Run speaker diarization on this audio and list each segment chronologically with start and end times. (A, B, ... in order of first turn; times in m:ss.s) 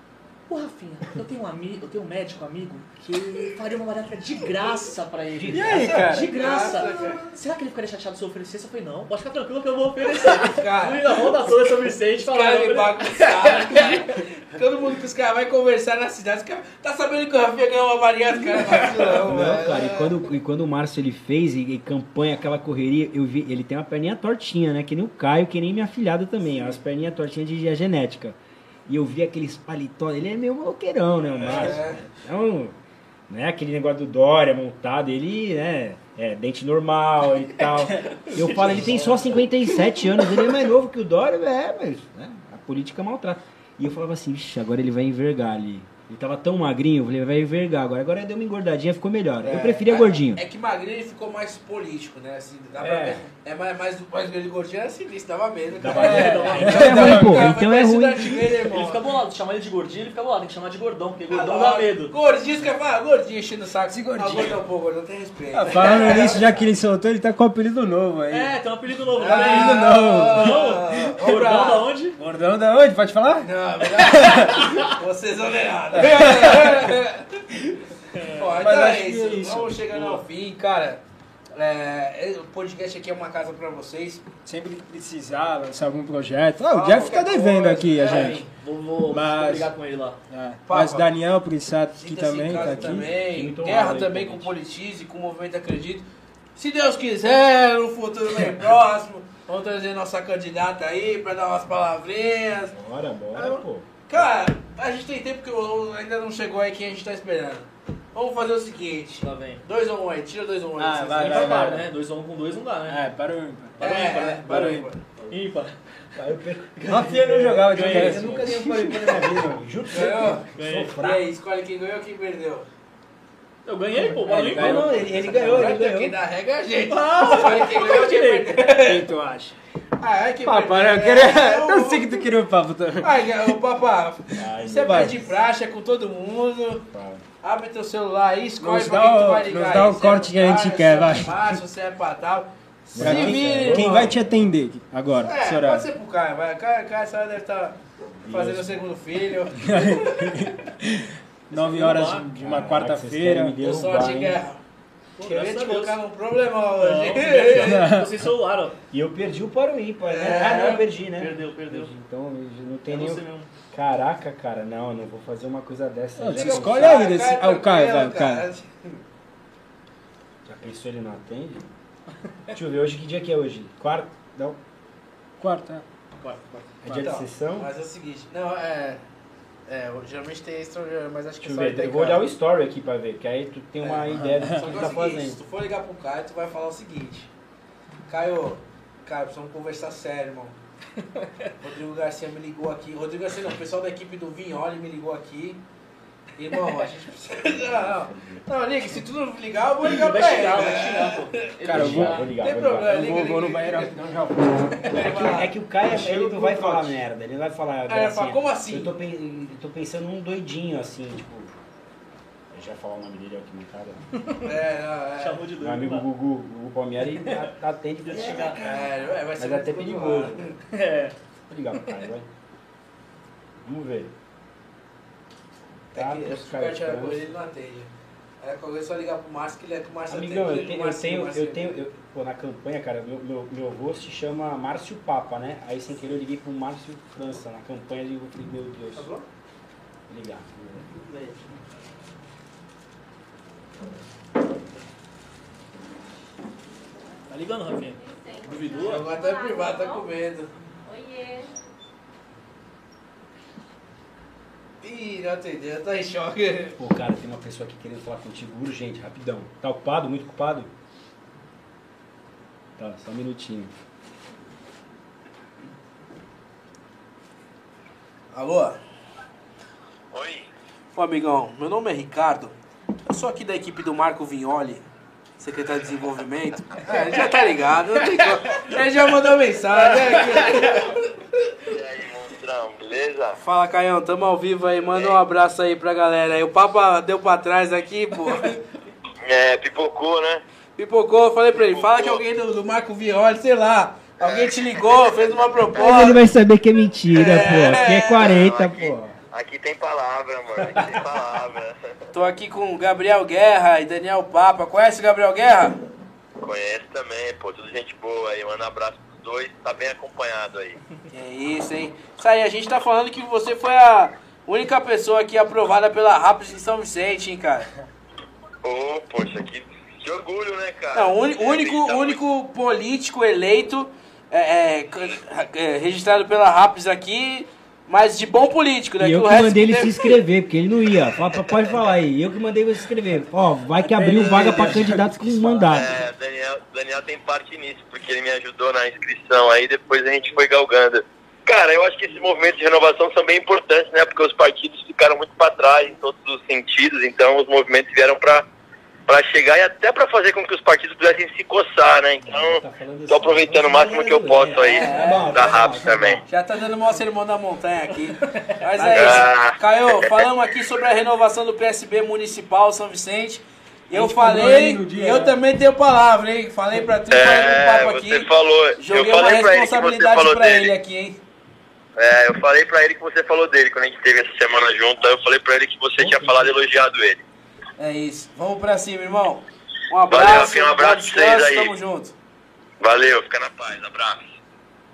0:00.5-0:14.2 A
0:05.3-0:06.0 B
0:05.5-0:06.3 C
0:05.8-0:07.2 D
0:10.0-0:11.6 D
0:12.2-0:20.3 D
0:19.2-0:32.8 B
0:31.4-0:32.0 D
0:33.3-0:50.4 B
0:38.3-0:39.4 D
0:49.4-0:59.0 D
0:52.8-0:53.2 B
0:55.8-0:58.5 B
0:55.9-0:57.5 C
0:56.0-0:57.1 A
0:58.7-1:02.2 A
1:01.3-1:06.6 D
1:03.9-1:04.6 C
1:05.5-1:08.6 C
1:08.3-1:12.2 A
1:09.2-1:11.9 D
1:09.3-1:10.6 C
1:12.2-1:14.7 C
1:13.4-1:17.8 D
1:14.6-1:14.9 A
1:15.9-1:16.9 C
1:18.1-1:18.5 A
1:18.3-1:21.0 D
1:18.6-1:20.0 C
1:19.9-1:20.2 A
1:21.5-1:24.2 D
1:24.4-1:28.4 C
1:26.7-1:28.4 D
1:28.0-1:30.2 A
1:29.1-1:29.7 C
1:30.3-1:33.1 C
1:30.7-1:31.1 D
1:32.0-1:42.8 D
1:32.5-1:34.5 B
1:42.7-1:44.3 B
1:43.3-1:51.7 D
1:49.2-1:49.6 A
1:50.8-1:51.8 C
1:51.2-1:53.0 A
1:51.5-1:51.8 B
1:52.9-1:54.9 C
1:53.8-1:55.0 D
1:53.8-1:55.8 A
1:56.2-2:01.2 B
1:56.8-1:58.3 A
1:56.9-1:59.6 C
1:59.9-2:02.7 D
2:00.6-2:00.9 A
2:03.7-2:05.1 A
2:04.1-2:06.2 B
2:04.2-2:05.7 C
2:05.1-2:09.1 D
2:06.9-2:08.7 A
2:08.7-2:09.6 C
2:10.0-2:12.3 D
2:10.4-2:13.6 C
2:13.0-2:16.9 D
2:14.4-2:15.2 B
2:14.8-2:15.2 C
2:16.9-2:17.2 B
2:17.4-2:24.1 D
2:18.6-2:21.6 C
2:22.9-2:24.4 B
2:23.0-2:25.9 C
2:25.2-2:27.8 D
2:28.2-2:28.8 B
2:28.3-2:30.5 D
2:29.6-2:33.6 C
2:31.5-2:32.3 A
2:32.4-2:34.4 B
2:33.6-2:34.6 D
2:35.2-2:36.0 A
2:35.2-2:37.9 D
2:36.8-2:38.8 A
2:37.6-2:38.2 C
2:38.9-2:47.1 B
2:40.0-2:40.9 D
2:41.2-2:41.9 A
2:42.9-2:43.5 A
2:46.2-2:48.5 C
2:46.4-2:49.0 D
2:50.4-2:51.7 B
2:52.5-2:54.6 B
2:55.4-2:55.8 C
2:56.2-2:56.6 A
2:56.8-2:57.7 B
2:56.9-2:59.0 D
2:59.7-3:02.3 D
3:01.4-3:05.4 B
3:03.8-3:07.3 D
3:04.4-3:04.6 C
3:08.1-3:10.6 D
3:11.6-3:15.6 D
3:16.4-3:21.3 D
3:17.6-3:18.4 B
3:19.8-3:22.3 A
3:21.6-3:25.2 C
3:21.7-3:23.0 B
3:22.4-3:24.0 D
3:24.7-3:25.5 D
3:25.0-3:31.6 B
3:25.9-3:27.0 C
3:27.9-3:28.9 D
3:32.5-3:34.0 B
3:34.2-3:34.5 A
3:34.4-3:35.5 D
3:35.2-3:36.1 A
3:35.6-3:40.6 B
3:38.0-3:38.6 A
3:38.3-3:40.6 D
3:40.7-3:41.2 A
3:41.5-3:42.3 B
3:43.6-3:44.1 B
3:45.9-3:47.3 B
3:46.0-3:47.9 D
3:48.4-3:51.6 D
3:50.1-3:59.1 B
3:59.0-3:59.2 D
4:00.1-4:01.1 B
4:07.3-4:09.1 A
4:07.9-4:10.1 E
4:08.8-4:10.5 D
4:10.8-4:11.5 E
4:14.8-4:16.8 D
4:16.8-4:20.7 B
4:22.8-4:23.7 B
4:28.3-4:28.8 D
4:30.1-4:30.5 F
4:31.0-4:32.6 D
4:33.1-4:34.9 D
4:35.4-4:41.1 D
4:40.2-4:40.4 F
4:41.7-4:43.4 F
4:43.4-4:48.6 D
4:44.9-4:45.2 F
4:49.2-4:50.4 F
4:50.8-4:56.2 D
4:51.6-4:52.2 F
4:54.2-4:54.5 F
4:55.2-4:56.1 F
4:55.8-4:59.2 B
4:57.1-4:58.3 D
4:57.5-5:01.9 F
5:00.7-5:01.0 B
5:02.1-5:05.8 D
5:06.4-5:10.8 F
5:11.1-5:17.7 D
5:18.6-5:22.2 F
5:20.9-5:30.2 D
5:29.0-5:36.0 B
5:33.7-5:35.8 C
5:35.7-5:48.4 F
5:49.1-5:56.2 F
5:52.2-5:56.3 B
5:54.6-5:55.7 D
5:56.3-6:11.2 D
5:58.9-6:00.7 F
6:03.9-6:05.4 C
6:07.1-6:10.7 F
6:12.0-6:17.2 F
6:16.0-6:16.6 B
6:17.8-6:22.1 D
6:20.1-6:21.8 F
6:22.8-6:24.3 F